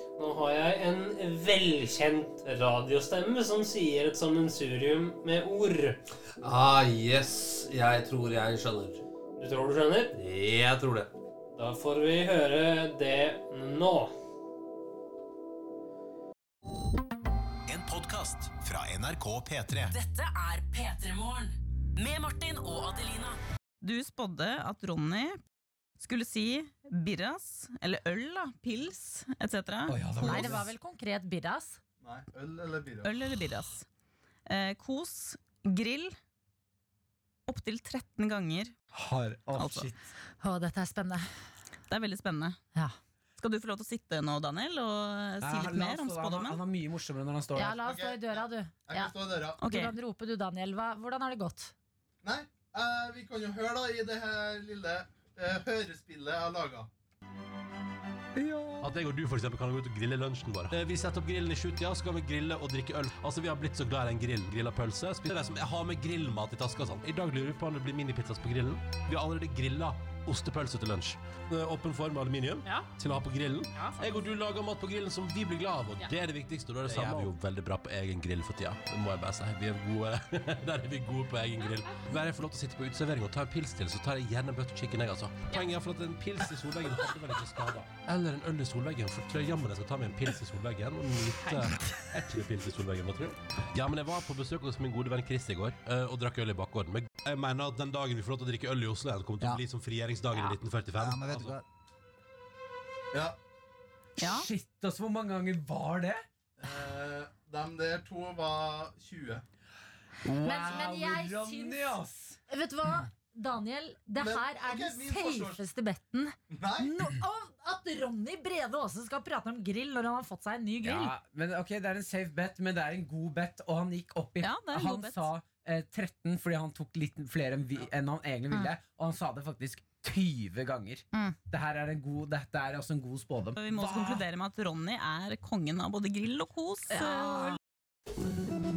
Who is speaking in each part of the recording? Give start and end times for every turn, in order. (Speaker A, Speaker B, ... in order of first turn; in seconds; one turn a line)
Speaker A: 0.2-6.0
Speaker B: 6.4-9.0
Speaker A: 9.4-10.1
Speaker B: 10.1-11.1
Speaker A: 11.5-14.1
Speaker C: 17.7-19.9
Speaker D: 19.8-23.4
Speaker E: 23.8-25.4
Speaker E: 26.0-30.5
Speaker F: 29.9-30.7
Speaker G: 30.2-31.8
Speaker H: 32.0-33.1
Speaker E: 33.0-33.9
Speaker E: 34.5-36.2
Speaker E: 37.5-38.7
Speaker F: 38.9-40.0
Speaker E: 39.5-39.9
Speaker G: 40.4-41.3
Speaker E: 41.9-42.6
Speaker E: 43.4-46.6
Speaker F: 45.4-47.8
Speaker G: 47.5-51.7
Speaker H: 47.8-49.6
Speaker E: 49.6-50.0
Speaker H: 52.2-56.9
Speaker F: 58.4-58.9
Speaker I: 58.8-101.6
Speaker E: 104.2-104.5
Speaker F: 104.2-106.2
Speaker H: 106.6-109.4
Speaker F: 110.2-112.4
Speaker G: 110.4-112.0
Speaker G: 112.5-121.1
Speaker H: 114.2-115.6
Speaker H: 116.5-117.1
Speaker F: 120.8-134.2
Speaker E: 124.4-125.3
Speaker E: 131.1-131.4
Speaker E: 133.6-137.6